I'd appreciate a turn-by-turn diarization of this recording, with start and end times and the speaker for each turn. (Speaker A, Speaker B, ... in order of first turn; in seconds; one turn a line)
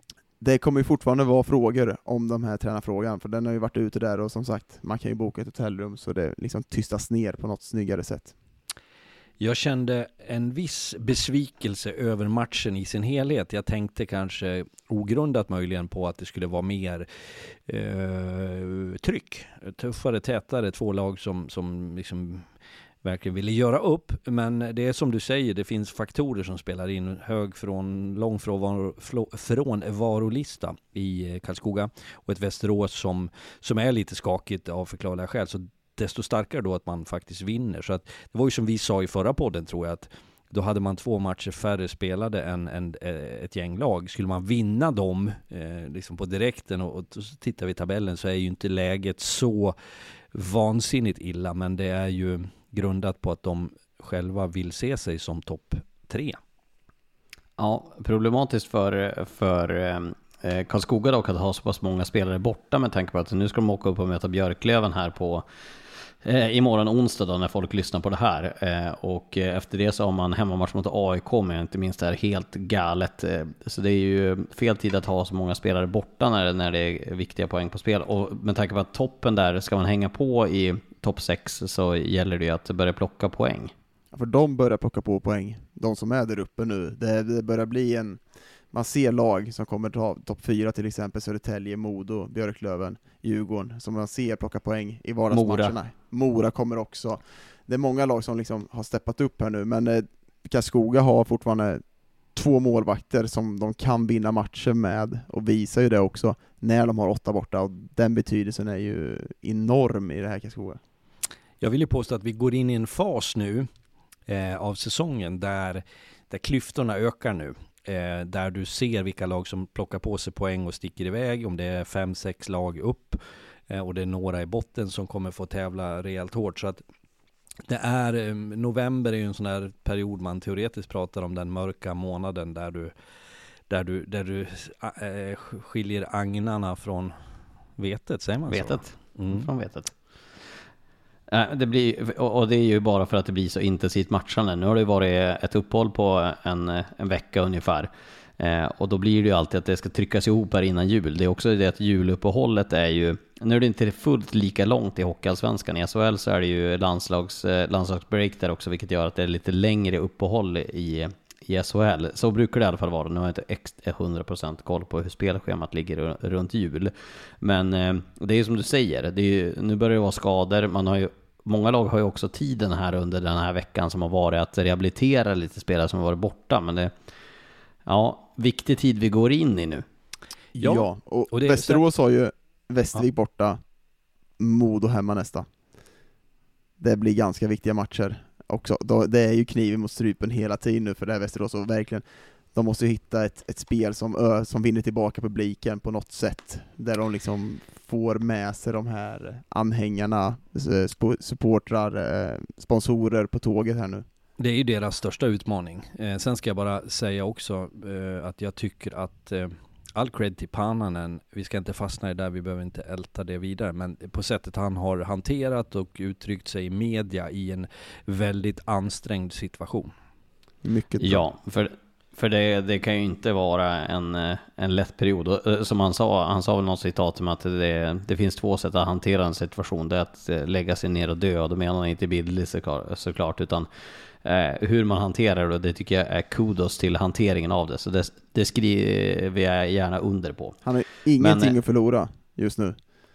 Speaker A: 0.4-8.3
Speaker B: 9.4-22.4
Speaker B: 23.0-49.7
Speaker B: 50.3-56.4
Speaker C: 57.6-65.4
Speaker C: 66.2-83.7
Speaker A: 84.1-101.8
Speaker C: 95.3-95.7
Speaker A: 102.3-110.8
Speaker B: 111.6-113.7
Speaker B: 114.3-126.8
Speaker B: 127.7-132.9
Speaker B: 133.7-137.1
Speaker B: 137.8-139.5
Speaker C: 138.5-139.9
Speaker C: 141.3-176.9
Speaker C: 177.9-179.8
Speaker A: 180.6-183.6
Speaker B: 180.6-181.8
Speaker A: 184.4-185.5
Speaker A: 186.8-204.0
Speaker B: 204.4-219.9
Speaker A: 220.6-221.2
Speaker C: 221.0-233.7
Speaker C: 234.2-240.6
Speaker A: 240.6-242.8
Speaker C: 241.2-241.5